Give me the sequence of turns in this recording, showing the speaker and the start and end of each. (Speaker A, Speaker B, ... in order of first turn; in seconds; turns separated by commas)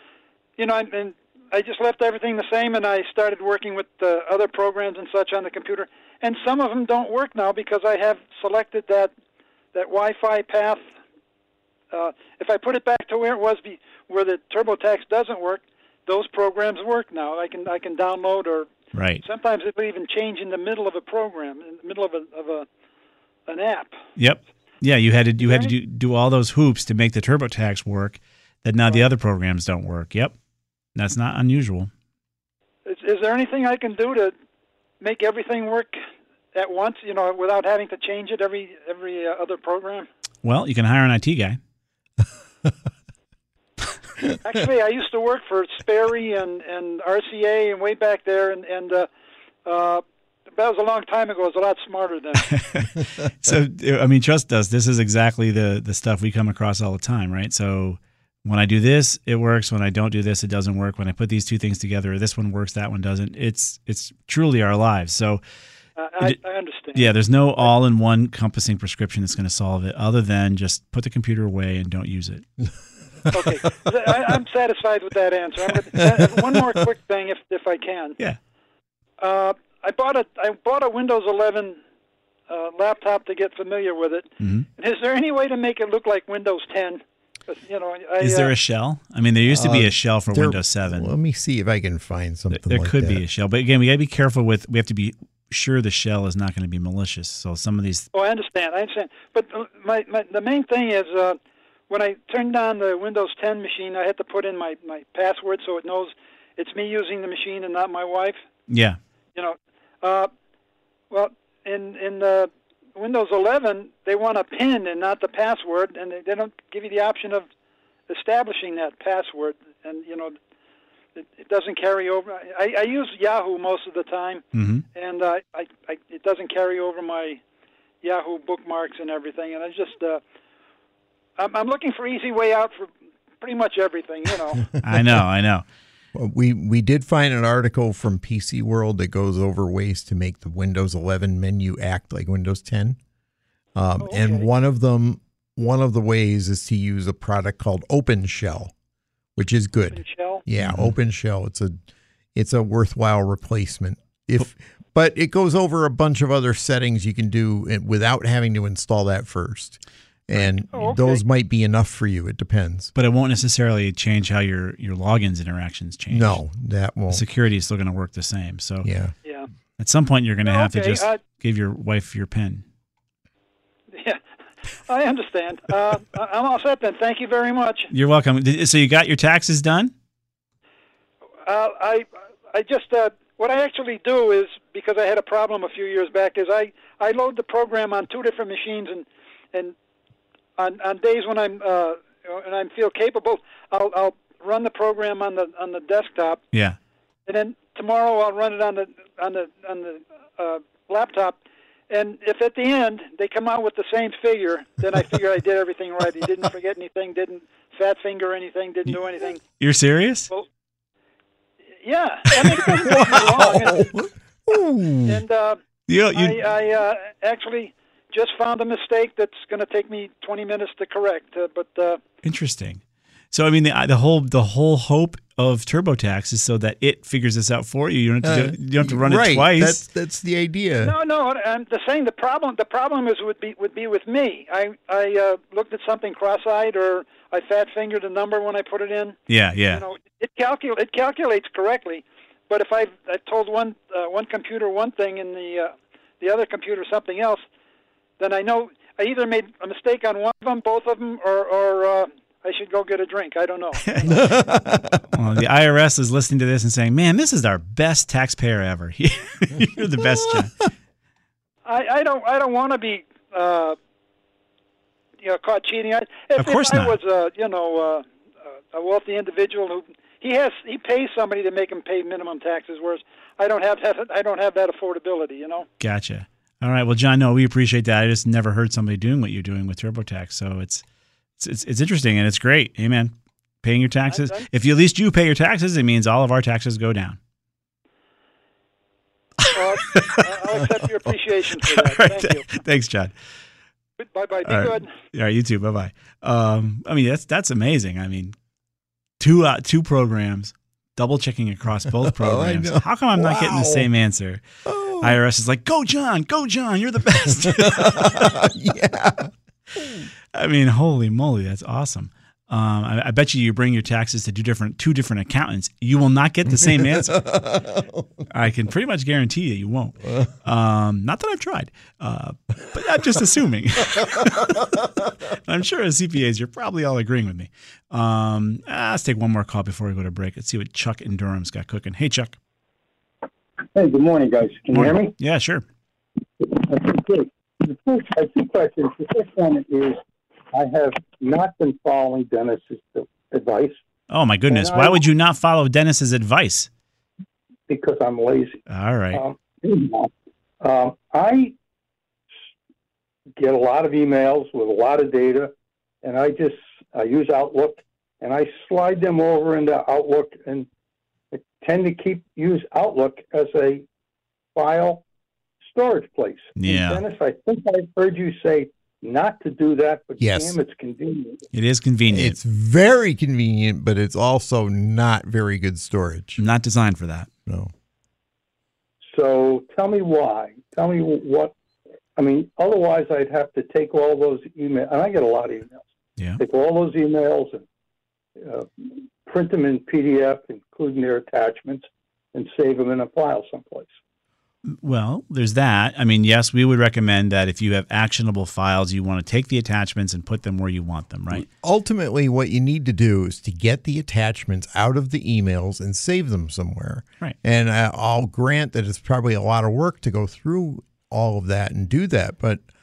Speaker A: 0.6-9.1, Speaker A: 9.7-10.8, Speaker A: 11.9-18.7, Speaker B: 18.9-19.2, Speaker A: 19.2-22.7, Speaker A: 23.5-23.9, Speaker B: 24.2-30.3, Speaker A: 25.4-25.7, Speaker B: 30.9-31.9, Speaker A: 32.9-34.3, Speaker A: 35.0-36.0, Speaker A: 36.5-40.1, Speaker B: 40.4-41.6, Speaker A: 44.4-49.1, Speaker A: 49.6-52.5, Speaker B: 52.5-65.4, Speaker A: 66.0-67.7, Speaker B: 66.9-72.5, Speaker A: 73.3-78.2, Speaker C: 76.0-76.3, Speaker A: 79.2-81.8, Speaker A: 82.5-88.5, Speaker B: 84.4-84.7, Speaker B: 88.2-91.1, Speaker C: 89.5-93.2, Speaker B: 92.5-98.1, Speaker A: 98.1-108.4, Speaker B: 108.7-109.0, Speaker A: 109.3-110.3, Speaker A: 111.1-117.5, Speaker A: 118.1-120.3, Speaker A: 121.2-124.4, Speaker B: 124.5-124.8, Speaker A: 124.9-127.4, Speaker A: 128.0-130.2, Speaker A: 131.4-134.7, Speaker B: 134.8-135.6, Speaker C: 136.1-143.0, Speaker C: 143.8-148.7, Speaker A: 144.0-144.5, Speaker C: 149.3-151.8, Speaker A: 149.9-150.4, Speaker B: 150.6-150.9, Speaker C: 152.3-162.9, Speaker A: 160.7-161.2, Speaker B: 162.9-166.4, Speaker C: 166.1-167.2, Speaker B: 167.1-168.9, Speaker C: 168.8-169.1, Speaker B: 169.8-172.6, Speaker A: 170.4-171.2, Speaker A: 173.9-174.2, Speaker A: 174.9-177.9, Speaker B: 177.9-179.9, Speaker A: 181.4-189.7, Speaker A: 190.6-196.4, Speaker B: 196.5-196.8, Speaker A: 197.3-201.4, Speaker A: 201.9-209.4, Speaker B: 209.6-210.3, Speaker A: 211.8-213.9, Speaker C: 212.8-215.2, Speaker A: 215.1-215.6, Speaker B: 215.9-216.4, Speaker A: 216.1-222.0, Speaker B: 222.2-229.8, Speaker C: 228.2-230.9, Speaker A: 230.8-239.2, Speaker B: 239.3-239.8, Speaker A: 239.7-247.4, Speaker A: 248.2-254.3, Speaker B: 253.8-254.1, Speaker C: 254.1-255.0, Speaker B: 255.1-260.6, Speaker A: 261.6-263.8, Speaker A: 265.2-268.1, Speaker B: 266.4-267.0, Speaker A: 268.7-275.7, Speaker B: 275.8-280.8, Speaker B: 281.4-287.2, Speaker A: 284.1-284.5, Speaker B: 289.4-290.2, Speaker A: 289.5-292.5, Speaker B: 291.6-293.1, Speaker A: 294.0-294.9, Speaker B: 294.4-298.4, Speaker B: 299.2-304.4, Speaker C: 302.0-303.9, Speaker C: 304.6-305.2, Speaker B: 305.0-308.5, Speaker C: 307.4-310.1, Speaker B: 310.3-317.2, Speaker C: 316.6-318.2, Speaker B: 318.3-324.6, Speaker C: 323.9-325.1, Speaker B: 325.3-332.4, Speaker D: 333.7-335.1, Speaker B: 334.7-335.6, Speaker D: 336.4-340.0, Speaker D: 340.5-343.8, Speaker B: 344.1-346.7, Speaker D: 344.5-345.0, Speaker D: 347.7-351.5, Speaker B: 348.7-349.2, Speaker D: 353.4-355.5, Speaker D: 356.0-360.7, Speaker D: 361.3-363.8, Speaker D: 364.5-365.0, Speaker D: 365.6-371.4, Speaker B: 366.6-367.0, Speaker C: 370.2-370.6, Speaker B: 371.5-372.4, Speaker C: 372.1-376.4, Speaker B: 376.4-377.3, Speaker C: 377.5-377.7, Speaker D: 379.1-381.5, Speaker D: 382.2-385.8, Speaker D: 386.4-387.6, Speaker D: 388.4-393.9, Speaker B: 394.6-401.4, Speaker C: 401.3-412.6